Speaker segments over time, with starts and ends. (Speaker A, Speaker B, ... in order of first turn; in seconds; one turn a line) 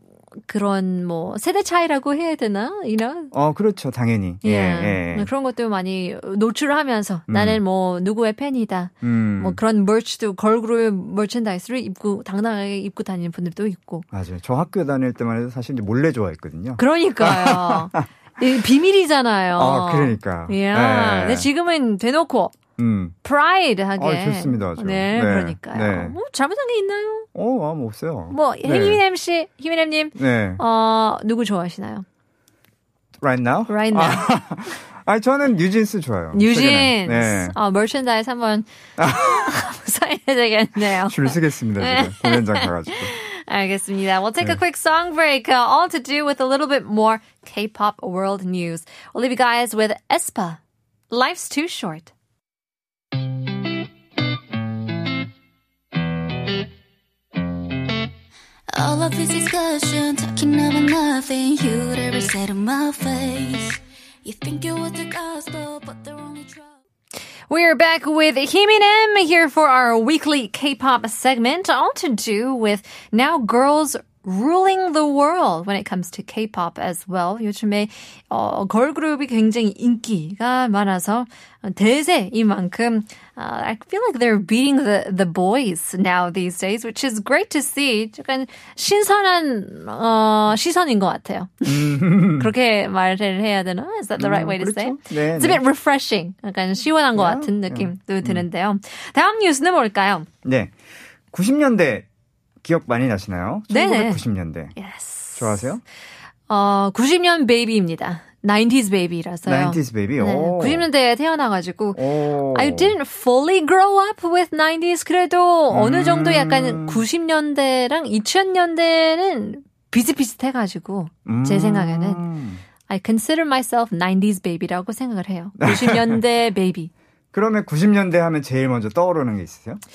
Speaker A: 0.4-3.3
Speaker B: 3.3-5.3
Speaker A: 4.4-14.1
Speaker B: 7.3-7.6
Speaker B: 9.0-9.6
Speaker B: 14.1-18.1
Speaker A: 16.8-22.6
Speaker B: 19.5-21.5
Speaker B: 22.8-23.1
Speaker A: 23.2-27.3
Speaker B: 24.0-26.2
Speaker B: 27.3-29.0
Speaker A: 28.3-32.0
Speaker B: 30.1-30.6
Speaker B: 33.2-37.5
Speaker A: 33.7-34.4
Speaker A: 36.3-52.1
Speaker B: 39.0-39.5
Speaker B: 40.8-43.1
Speaker C: 58.7-66.7
Speaker A: 67.5-100.3
Speaker B: 91.6-92.5
Speaker B: 94.2-95.6
Speaker B: 97.1-98.5
Speaker B: 100.4-100.7
Speaker B: 101.3-102.1
Speaker B: 102.6-104.7
Speaker A: 103.7-104.2
Speaker A: 104.7-105.7
Speaker B: 105.3-105.8
Speaker A: 106.5-122.2
Speaker B: 109.5-110.9
Speaker B: 111.9-113.0
Speaker B: 115.7-117.0
Speaker B: 121.2-122.6
Speaker A: 122.8-126.9
Speaker B: 125.6-126.2
Speaker B: 127.3-129.8